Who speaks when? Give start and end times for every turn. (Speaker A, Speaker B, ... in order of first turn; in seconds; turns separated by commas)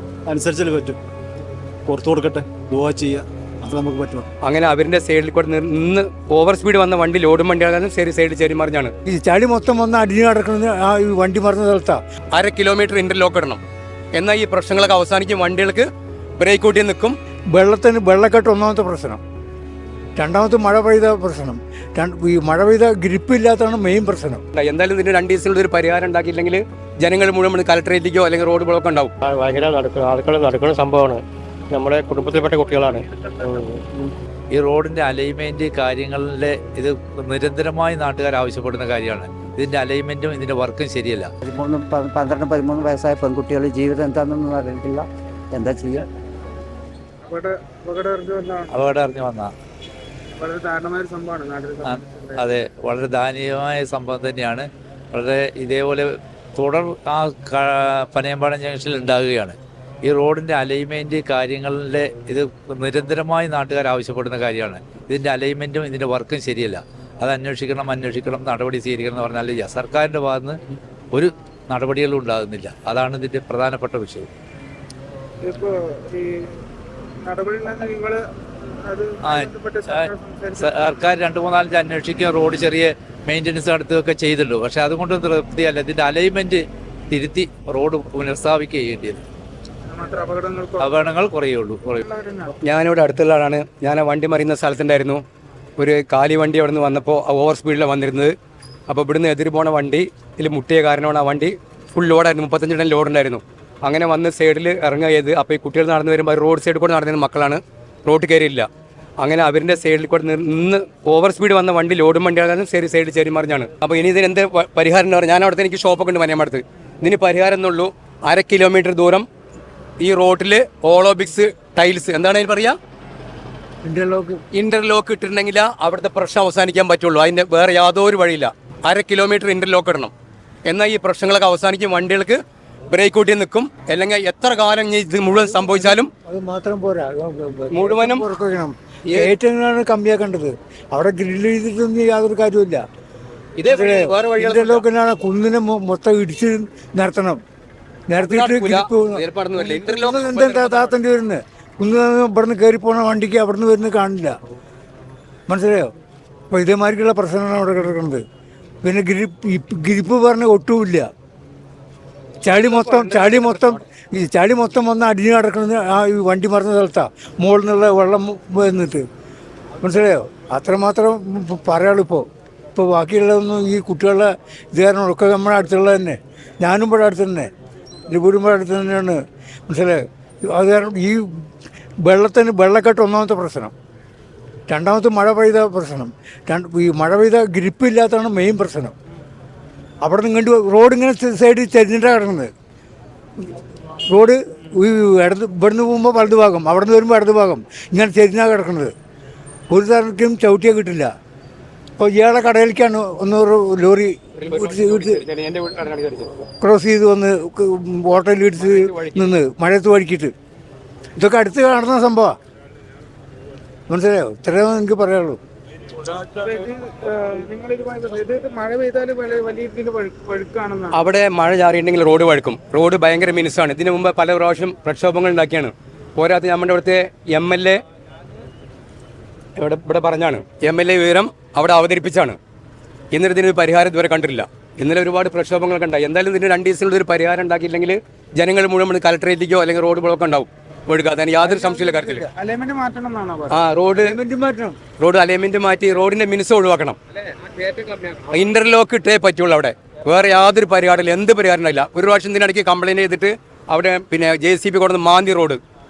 Speaker A: 0.3-1.0, Speaker A: 1.9-4.2, Speaker B: 4.4-8.9, Speaker C: 9.0-12.0, Speaker B: 12.3-13.6, Speaker B: 14.1-15.9, Speaker B: 16.4-17.1, Speaker C: 17.5-19.2, Speaker C: 20.2-24.4, Speaker B: 24.5-29.1, Speaker D: 29.2-34.1, Speaker E: 32.2-33.6, Speaker F: 34.5-41.3, Speaker G: 41.4-46.1, Speaker E: 47.2-48.9, Speaker F: 48.7-49.5, Speaker E: 50.3-52.5, Speaker F: 51.8-70.6, Speaker F: 71.1-74.3, Speaker E: 75.4-76.6, Speaker E: 77.2-78.2, Speaker E: 78.8-80.7, Speaker F: 79.2-89.2, Speaker E: 89.9-91.1, Speaker F: 90.8-92.0, Speaker E: 92.0-92.5, Speaker B: 92.6-95.2, Speaker B: 95.8-98.3, Speaker B: 98.9-108.7, Speaker B: 109.2-119.2, Speaker B: 120.0-122.8, Speaker C: 123.8-124.4, Speaker B: 124.5-130.1, Speaker B: 130.7-136.1, Speaker C: 135.3-142.8, Speaker B: 137.7-138.2, Speaker B: 139.1-139.3, Speaker B: 143.6-144.8, Speaker C: 143.7-147.4, Speaker C: 148.1-154.4, Speaker B: 148.2-150.9, Speaker C: 155.5-155.9, Speaker C: 156.5-158.2, Speaker C: 158.8-161.1, Speaker C: 162.4-169.0, Speaker E: 162.5-163.7, Speaker C: 169.8-177.5, Speaker C: 178.1-179.2, Speaker C: 179.7-181.5, Speaker C: 182.0-183.7, Speaker C: 184.7-188.9, Speaker C: 190.0-192.5, Speaker C: 194.1-198.9, Speaker C: 199.7-201.1, Speaker C: 202.0-205.2, Speaker B: 204.3-206.5, Speaker C: 206.6-210.3, Speaker B: 208.6-209.3, Speaker C: 211.2-212.3, Speaker C: 213.9-215.4, Speaker E: 216.4-221.0, Speaker B: 220.9-227.8, Speaker B: 229.6-232.4, Speaker B: 233.1-242.3, Speaker E: 241.4-243.6, Speaker B: 243.5-244.1, Speaker C: 243.9-244.8, Speaker B: 245.0-247.0, Speaker B: 247.7-255.6